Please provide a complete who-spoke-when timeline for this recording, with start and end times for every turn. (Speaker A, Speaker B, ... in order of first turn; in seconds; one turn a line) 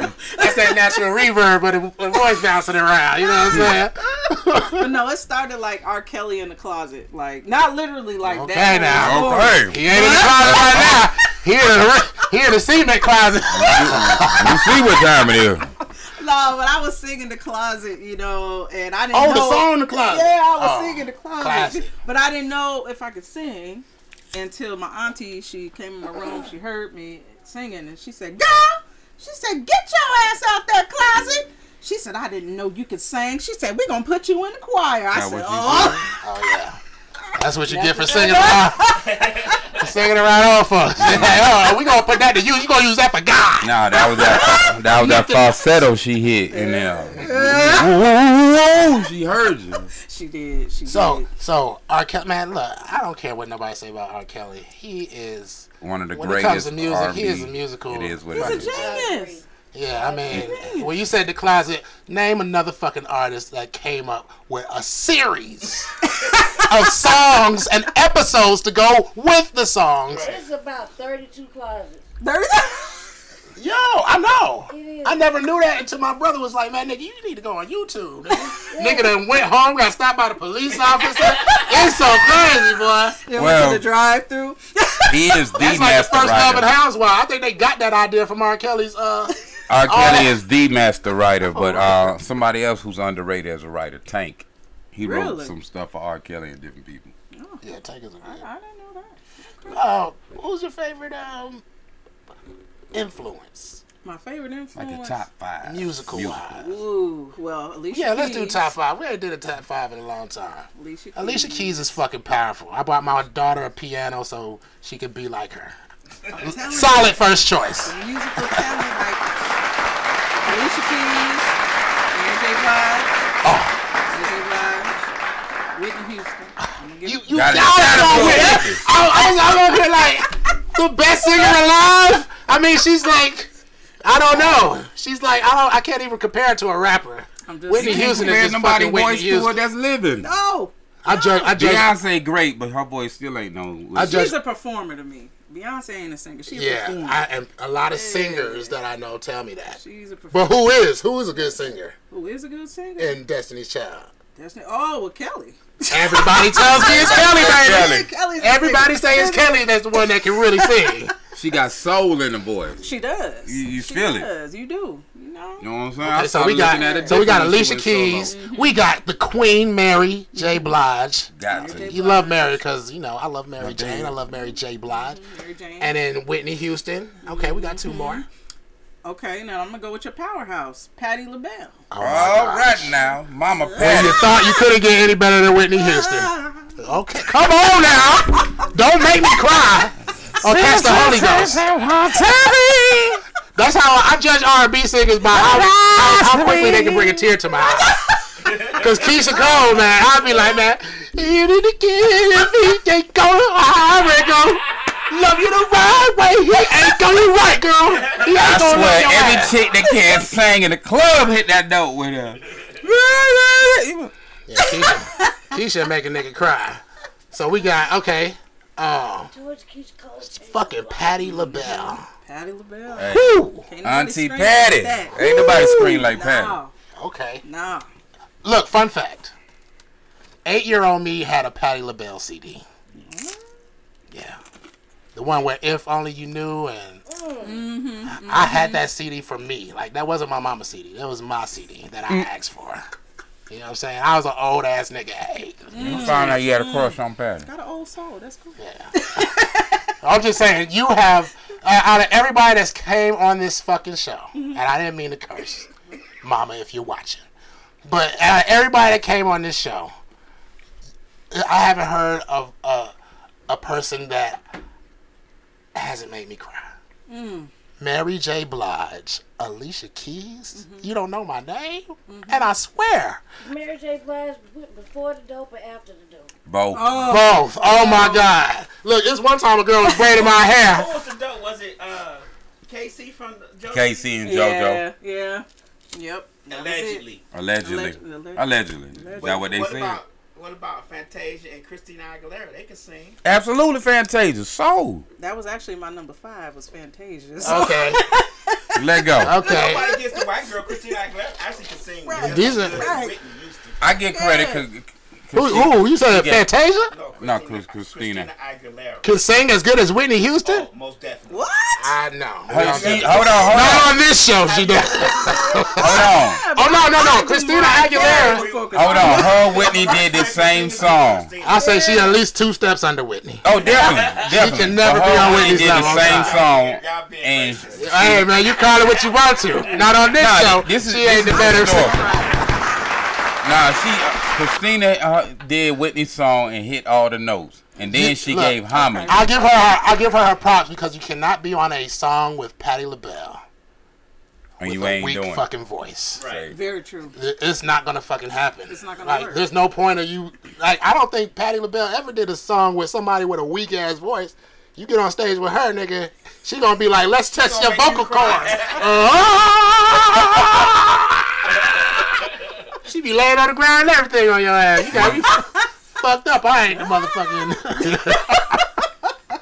Speaker A: 0.4-1.0
Speaker B: 0.4-5.0
Speaker A: 4.8-11.0
Speaker B: 8.2-14.9
Speaker C: 8.9-11.1
Speaker C: 13.5-15.7
Speaker A: 16.0-36.1
Speaker B: 19.1-21.9
Speaker C: 35.1-36.1
Speaker B: 36.2-36.8
Speaker B: 37.4-39.0
Speaker A: 37.7-39.3
Speaker D: 39.0-39.8
Speaker B: 39.8-45.6
Speaker C: 41.0-41.5
Speaker C: 43.6-49.9
Speaker A: 46.5-47.9
Speaker A: 50.0-51.3
Speaker B: 50.9-58.9
Speaker C: 55.8-58.8
Speaker A: 58.3-59.4
Speaker E: 58.4-59.5
Speaker B: 59.7-65.9
Speaker E: 60.0-60.5
Speaker A: 60.3-60.9
Speaker A: 66.2-66.7
Speaker B: 66.6-70.4
Speaker D: 70.1-70.4
Speaker E: 70.2-72.0
Speaker A: 72.2-73.1
Speaker B: 73.6-83.2
Speaker E: 74.7-75.3
Speaker E: 78.7-79.2
Speaker A: 83.2-85.5
Speaker C: 83.4-83.9
Speaker C: 85.1-86.7
Speaker B: 85.6-89.3
Speaker C: 89.7-97.1
Speaker B: 89.9-90.4
Speaker B: 91.4-92.2
Speaker A: 95.0-95.5
Speaker A: 97.3-97.6
Speaker B: 97.6-98.5
Speaker A: 98.2-99.7
Speaker B: 99.7-101.6
Speaker B: 102.9-103.8
Speaker A: 104.0-105.2
Speaker C: 104.8-106.4
Speaker B: 105.6-106.7
Speaker A: 106.5-108.7
Speaker B: 107.9-115.8
Speaker A: 110.8-111.8
Speaker A: 116.3-117.2
Speaker B: 116.4-118.6
Speaker A: 117.8-119.3
Speaker A: 120.4-121.5
Speaker A: 122.1-123.1
Speaker B: 123.4-123.8
Speaker A: 124.1-124.9
Speaker A: 125.7-128.7
Speaker B: 127.0-133.5
Speaker C: 127.3-128.8
Speaker B: 134.0-139.6
Speaker A: 137.5-138.5
Speaker C: 137.8-140.3
Speaker A: 140.2-141.5
Speaker B: 141.0-141.9
Speaker C: 141.6-144.3
Speaker B: 143.9-144.4
Speaker A: 144.0-147.2
Speaker B: 146.5-149.8
Speaker A: 147.9-148.8
Speaker A: 149.8-150.6
Speaker B: 150.3-151.9
Speaker A: 152.1-153.2
Speaker B: 153.0-154.1
Speaker A: 154.4-160.9
Speaker B: 155.9-161.1
Speaker C: 156.7-158.1
Speaker C: 161.3-162.8
Speaker A: 162.8-165.6
Speaker C: 163.4-164.3
Speaker C: 165.6-168.3
Speaker B: 166.0-175.2
Speaker A: 166.6-167.4
Speaker A: 168.2-168.9
Speaker A: 170.3-170.7
Speaker C: 171.3-172.0
Speaker A: 171.5-172.6
Speaker C: 173.6-174.1
Speaker A: 174.9-175.9
Speaker B: 175.8-178.2
Speaker A: 177.2-178.2
Speaker A: 179.1-181.8
Speaker B: 181.9-182.9
Speaker C: 182.0-184.3
Speaker A: 183.0-184.4
Speaker B: 183.8-191.6
Speaker A: 185.7-186.8
Speaker C: 190.4-193.2
Speaker B: 193.6-198.0
Speaker C: 195.4-197.1
Speaker D: 198.4-198.8
Speaker B: 198.7-209.7
Speaker D: 208.0-208.3
Speaker C: 208.4-214.1
Speaker B: 214.5-219.3
Speaker A: 214.8-215.3
Speaker E: 219.3-221.2
Speaker B: 220.3-222.1
Speaker A: 221.2-223.1
Speaker C: 223.0-226.6
Speaker B: 223.1-223.7
Speaker A: 223.6-226.7
Speaker B: 225.2-225.9
Speaker B: 226.9-227.4
Speaker A: 227.4-227.9
Speaker B: 228.4-229.3
Speaker B: 230.4-232.6
Speaker A: 233.1-233.4
Speaker B: 234.1-234.4
Speaker B: 235.1-237.0
Speaker E: 237.1-237.7
Speaker A: 237.4-238.8
Speaker B: 238.1-242.8
Speaker B: 243.5-246.2
Speaker A: 245.7-249.9
Speaker C: 245.8-247.5
Speaker B: 248.6-249.2
Speaker B: 250.0-255.7
Speaker A: 254.3-254.6
Speaker B: 256.2-257.2
Speaker B: 257.9-259.9
Speaker B: 261.3-262.9
Speaker B: 263.5-264.4
Speaker B: 265.7-266.7
Speaker A: 267.1-267.5
Speaker B: 267.8-273.2
Speaker A: 270.6-270.9
Speaker A: 272.1-272.5
Speaker E: 273.4-276.3
Speaker C: 276.4-276.9
Speaker A: 276.7-278.4
Speaker B: 276.9-280.9
Speaker D: 280.0-284.1
Speaker C: 283.7-284.8
Speaker A: 284.2-287.1
Speaker D: 286.5-287.2
Speaker C: 287.3-290.0
Speaker A: 287.6-289.4
Speaker D: 289.1-293.2
Speaker C: 293.2-295.1
Speaker A: 295.2-298.8
Speaker B: 297.4-298.0
Speaker C: 298.8-299.4
Speaker B: 299.2-299.9
Speaker A: 299.3-300.9
Speaker D: 299.4-303.8
Speaker A: 302.0-303.1
Speaker B: 302.2-302.9
Speaker C: 303.8-306.4
Speaker A: 304.1-304.6
Speaker B: 305.3-306.9
Speaker D: 306.9-309.1
Speaker C: 307.2-308.3
Speaker B: 309.0-310.7
Speaker D: 310.4-311.5
Speaker A: 311.3-311.9
Speaker B: 311.8-318.4
Speaker C: 312.5-313.9
Speaker D: 312.5-313.9
Speaker D: 314.4-315.8
Speaker A: 315.3-320.0
Speaker C: 315.8-316.4
Speaker D: 317.9-321.8
Speaker C: 318.7-321.3
Speaker B: 321.4-323.4
Speaker A: 321.5-322.2
Speaker C: 323.4-328.2
Speaker D: 323.5-324.3
Speaker B: 324.2-326.4
Speaker D: 325.1-328.3
Speaker B: 327.8-332.1
Speaker A: 329.6-329.9
Speaker C: 330.2-332.0
Speaker A: 331.3-332.5
Speaker C: 333.4-339.2
Speaker B: 337.9-343.4
Speaker A: 338.7-339.5
Speaker C: 344.6-345.4
Speaker B: 344.6-346.2
Speaker D: 346.1-346.5
Speaker C: 346.3-346.5
Speaker A: 346.5-347.1
Speaker B: 347.1-361.7
Speaker A: 348.7-349.5
Speaker D: 357.4-358.9
Speaker B: 362.9-368.6
Speaker C: 364.9-365.2
Speaker A: 366.8-367.1